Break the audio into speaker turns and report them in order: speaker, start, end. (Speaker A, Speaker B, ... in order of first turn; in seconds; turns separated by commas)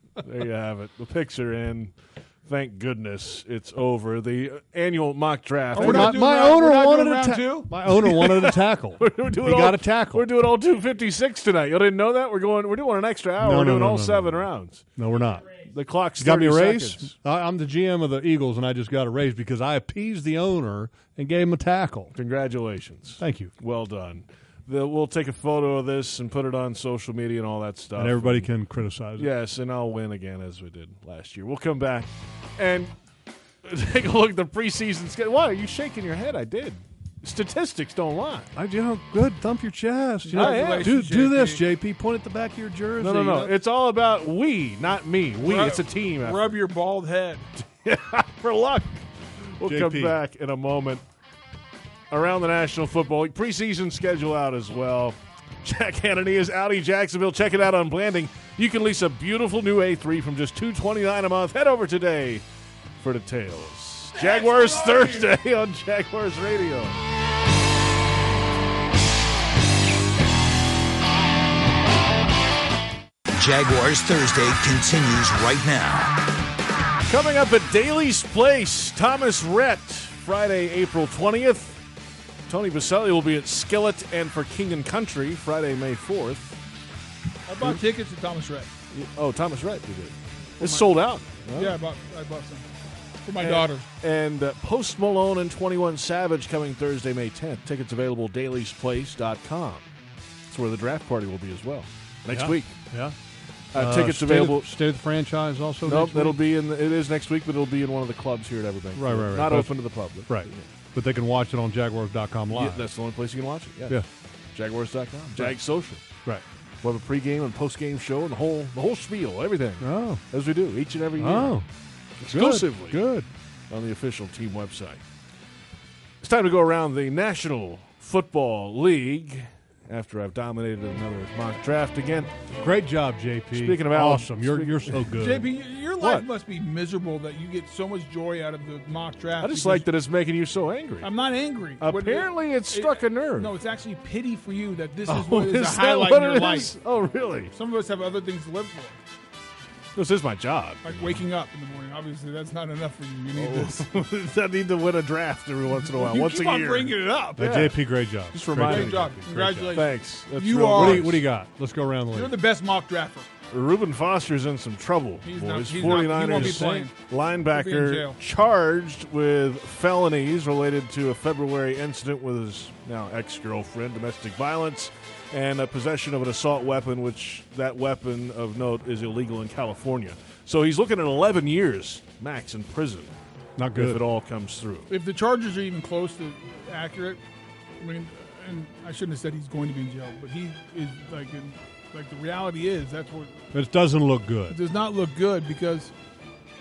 Speaker A: 0.2-1.9, Speaker A: 2.5-6.2, Speaker B: 5.8-7.7, Speaker C: 5.8-10.3, Speaker A: 7.9-14.9, Speaker C: 13.4-15.6, Speaker A: 15.6-17.1, Speaker C: 16.2-22.1, Speaker A: 22.1-28.5, Speaker C: 23.2-23.5, Speaker C: 28.0-29.3, Speaker A: 29.2-32.9, Speaker A: 33.6-38.5, Speaker C: 38.5-43.5, Speaker B: 40.2-41.6, Speaker A: 40.3-41.0, Speaker A: 43.0-46.5, Speaker B: 45.4-47.5, Speaker A: 47.6-51.0, Speaker C: 49.6-50.2, Speaker A: 52.1-62.4, Speaker A: 63.0-67.0, Speaker B: 64.2-65.3, Speaker D: 73.3-76.2, Speaker A: 77.1-81.8, Speaker A: 82.5-86.6, Speaker B: 87.5-88.7, Speaker A: 88.9-91.8, Speaker B: 90.6-90.9, Speaker B: 91.5-92.7, Speaker B: 93.2-93.9, Speaker A: 93.4-99.8, Speaker A: 100.5-102.8, Speaker C: 102.3-103.2, Speaker A: 103.7-104.7, Speaker C: 103.7-106.4, Speaker A: 105.8-110.7, Speaker C: 109.0-112.9, Speaker A: 112.5-116.0, Speaker A: 116.8-121.5, Speaker C: 119.8-120.2, Speaker C: 121.2-121.7, Speaker A: 122.2-123.0, Speaker C: 122.3-123.3, Speaker A: 123.7-125.0, Speaker A: 126.2-132.3, Speaker C: 132.6-135.5, Speaker A: 133.5-135.1, Speaker B: 135.1-139.9, Speaker A: 136.0-136.3, Speaker A: 139.4-141.1, Speaker B: 141.0-146.7, Speaker A: 141.8-143.5, Speaker A: 145.1-147.5, Speaker B: 147.5-149.0, Speaker A: 149.9-151.2, Speaker B: 150.8-153.9, Speaker A: 153.3-157.8, Speaker B: 155.9-157.7, Speaker C: 157.4-159.8, Speaker A: 158.3-159.0, Speaker B: 158.6-161.2, Speaker A: 159.7-161.2, Speaker C: 160.7-162.3, Speaker B: 162.1-163.3, Speaker A: 163.5-183.1, Speaker B: 165.2-166.9, Speaker C: 165.8-166.9, Speaker B: 167.5-168.2, Speaker C: 183.6-184.0, Speaker A: 183.8-184.9, Speaker B: 184.9-187.2, Speaker B: 187.8-193.4, Speaker C: 193.5-194.6, Speaker B: 194.5-195.9